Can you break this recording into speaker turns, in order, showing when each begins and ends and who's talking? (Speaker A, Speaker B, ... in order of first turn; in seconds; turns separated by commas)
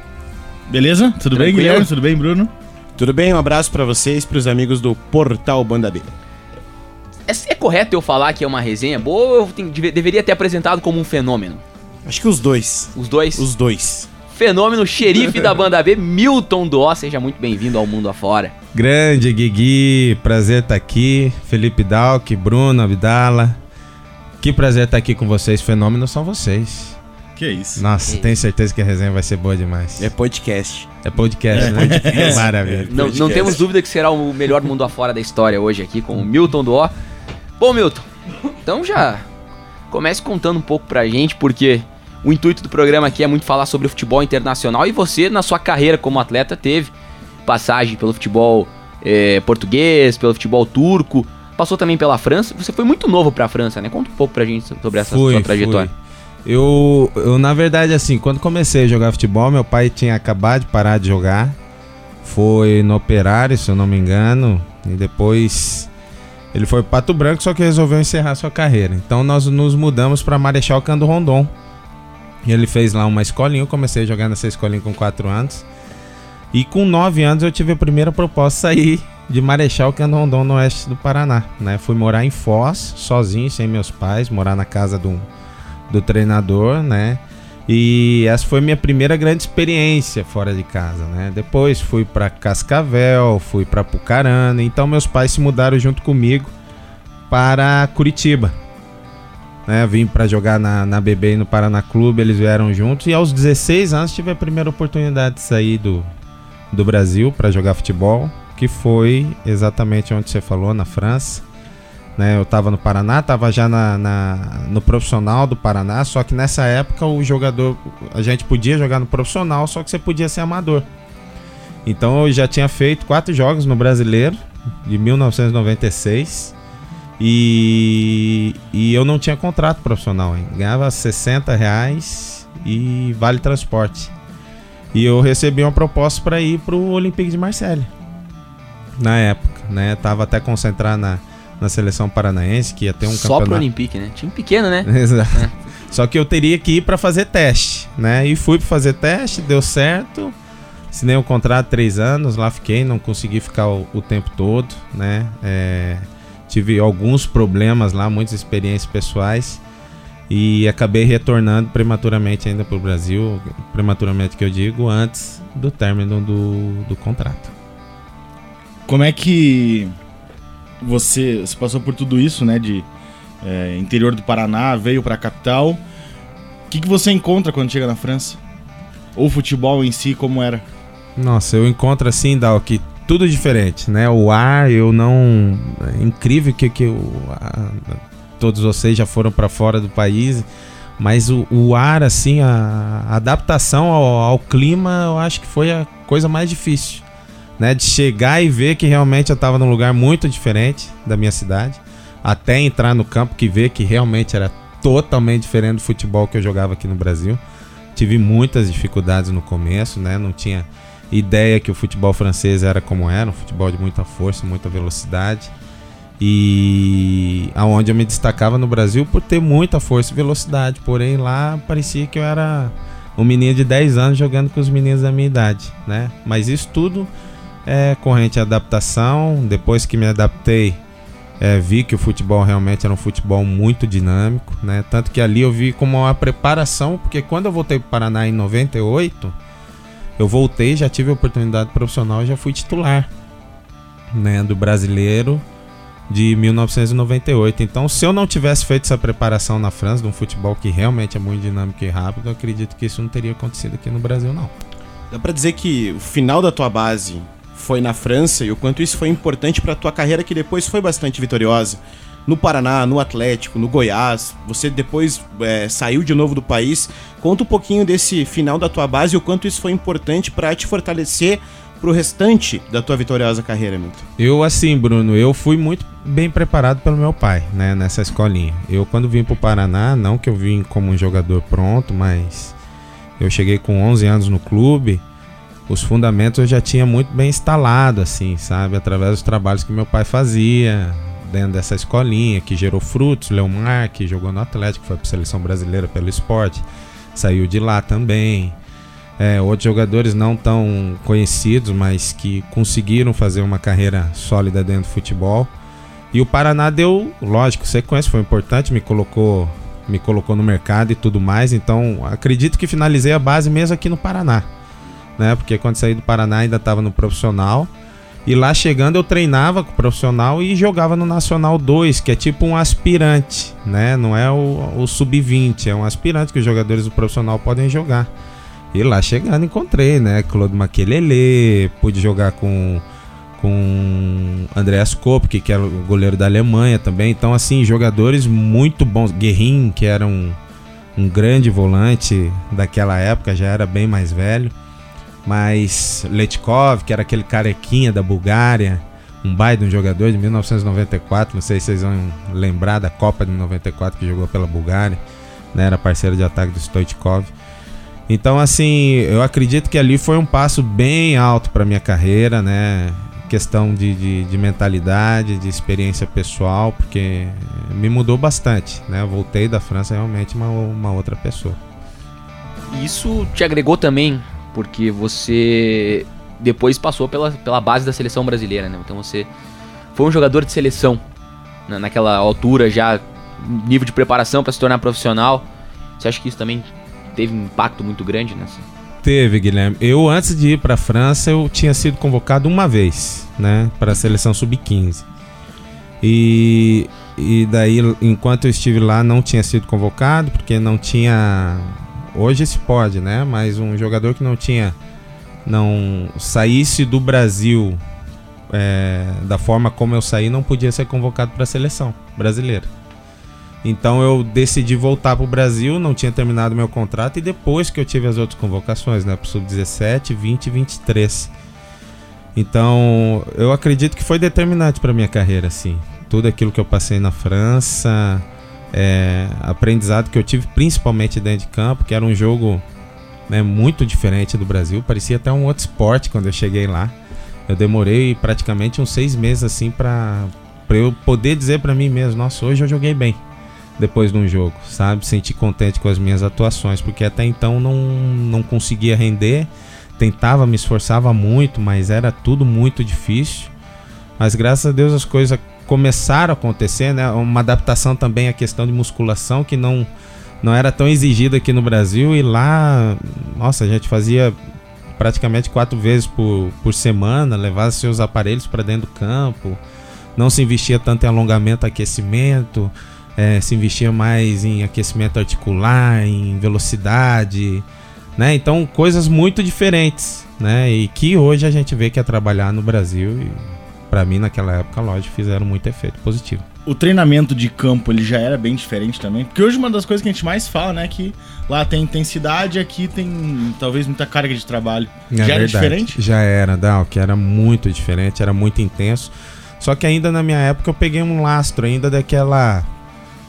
Speaker A: 0.7-2.5, Speaker B: 1.3-1.9, Speaker C: 3.0-6.1, Speaker B: 7.3-11.6, Speaker C: 12.1-14.1, Speaker B: 12.9-13.5, Speaker B: 14.3-18.5, Speaker D: 18.7-23.6, Speaker D: 24.4-27.0, Speaker A: 27.4-27.8, Speaker D: 27.8-30.1, Speaker B: 28.1-28.4, Speaker C: 30.0-30.9, Speaker D: 31.0-33.5, Speaker A: 31.5-32.5, Speaker C: 31.5-33.6, Speaker B: 32.9-36.9, Speaker B: 37.6-38.0, Speaker B: 38.6-39.3, Speaker B: 39.9-46.9, Speaker B: 47.4-55.9, Speaker D: 55.0-55.9, Speaker D: 56.4-61.6, Speaker D: 62.2-65.9, Speaker D: 66.5-71.5, Speaker D: 72.4-75.7, Speaker D: 76.5-85.3, Speaker D: 85.9-96.5, Speaker D: 97.3-98.5, Speaker D: 99.7-106.1, Speaker D: 106.7-111.4, Speaker D: 112.2-120.9, Speaker D: 121.8-126.5, Speaker D: 127.2-134.1, Speaker D: 134.9-137.9, Speaker D: 139.0-143.6, Speaker B: 143.0-145.5, Speaker D: 144.8-150.3, Speaker D: 150.9-159.6, Speaker D: 160.3-167.5, Speaker A: 168.9-169.9, Speaker A: 170.8-172.8, Speaker A: 173.4-175.8, Speaker A: 176.7-178.4, Speaker A: 179.2-180.6, Speaker D: 181.2-190.5, Speaker D: 191.0-197.0, Speaker D: 197.6-207.4, Speaker D: 207.9-215.5, Speaker D: 216.2-227.1, Speaker D: 227.7-230.8, Speaker D: 231.4-239.3, Speaker D: 240.2-243.1, Speaker D: 244.1-245.4, Speaker D: 246.1-254.5, Speaker C: 255.1-274.1, Speaker D: 274.2-282.6, Speaker D: 283.2-285.0, Speaker D: 285.7-298.6, Speaker D: 299.2-305.5, Speaker D: 306.1-314.5, Speaker D: 315.2-317.7, Speaker D: 318.2-328.1, Speaker D: 328.7-332.8, Speaker D: 333.4-340.4, Speaker D: 340.9-344.5, Speaker D: 345.2-355.0, Speaker D: 355.5-357.3, Speaker D: 358.1-371.6, Speaker B: 372.7-379.3, Speaker B: 379.9-381.0, Speaker B: 381.7-385.4, Speaker B: 386.0-388.6, Speaker D: 389.0-395.0, Speaker D: 396.0-404.8, Speaker D: 405.4-407.8, Speaker D: 408.5-412.7, Speaker D: 413.6-421.3, Speaker D: 422.3-432.6, Speaker D: 433.3-437.0, Speaker D: 437.5-443.2, Speaker D: 443.8-453.5, Speaker D: 454.2-459.9, Speaker D: 460.4-464.4, Speaker D: 465.0-469.6, Speaker D: 470.1-477.6, Speaker D: 478.2-486.4, Speaker A: 486.6-496.0, Speaker D: 495.1-502.7